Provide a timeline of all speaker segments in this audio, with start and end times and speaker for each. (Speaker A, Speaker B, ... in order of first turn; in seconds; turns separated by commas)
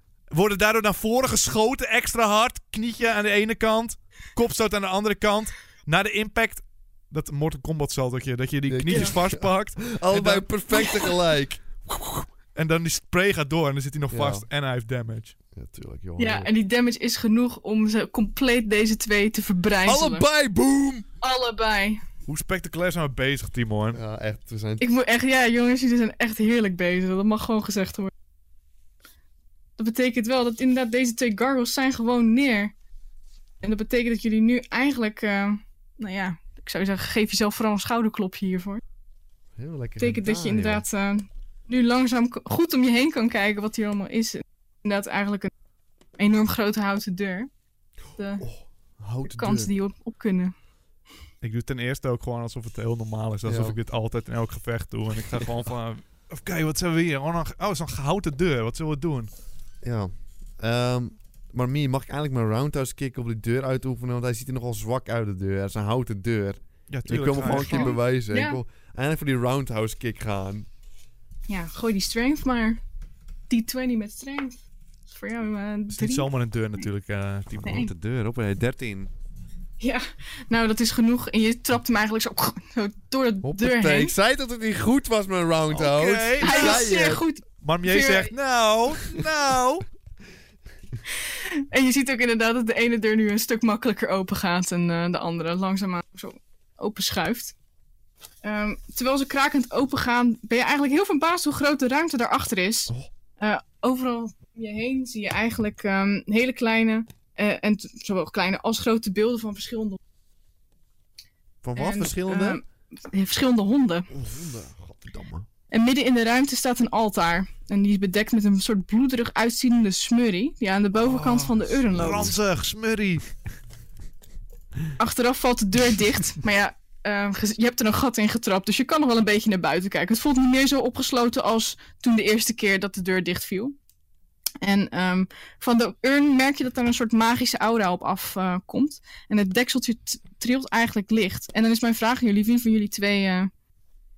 Speaker A: 0.3-10.5, Speaker B: 8.7-11.6, Speaker A: 12.6-15.3, Speaker B: 14.1-14.5, Speaker B: 15.5-16.5, Speaker C: 16.2-20.3, Speaker B: 19.9-21.1, Speaker C: 21.2-22.0, Speaker A: 22.3-24.0, Speaker B: 23.9-24.8, Speaker C: 24.8-28.1, Speaker C: 29.8-32.7, Speaker C: 33.6-38.8, Speaker B: 39.6-40.8, Speaker C: 40.0-45.5, Speaker C: 46.2-47.5, Speaker C: 48.2-48.5, Speaker B: 48.4-49.7, Speaker C: 49.3-50.5, Speaker A: 51.4-59.3, Speaker B: 53.5-53.8, Speaker B: 59.8-70.7, Speaker A: 66.9-68.0, Speaker C: 67.5-68.6, Speaker C: 71.5-72.8, Speaker C: 73.5-76.3, Speaker A: 75.9-77.8, Speaker B: 77.5-79.1, Speaker C: 77.6-77.9, Speaker C: 79.8-84.2, Speaker B: 83.4-87.2, Speaker A: 85.7-86.9, Speaker C: 86.4-88.3, Speaker A: 87.6-89.8, Speaker C: 91.3-97.5, Speaker C: 98.4-110.0, Speaker B: 111.6-112.6, Speaker C: 111.8-114.1, Speaker B: 114.1-115.5, Speaker C: 115.7-122.3, Speaker A: 121.1-123.2, Speaker B: 121.7-122.3, Speaker C: 125.0-133.8, Speaker C: 134.6-143.5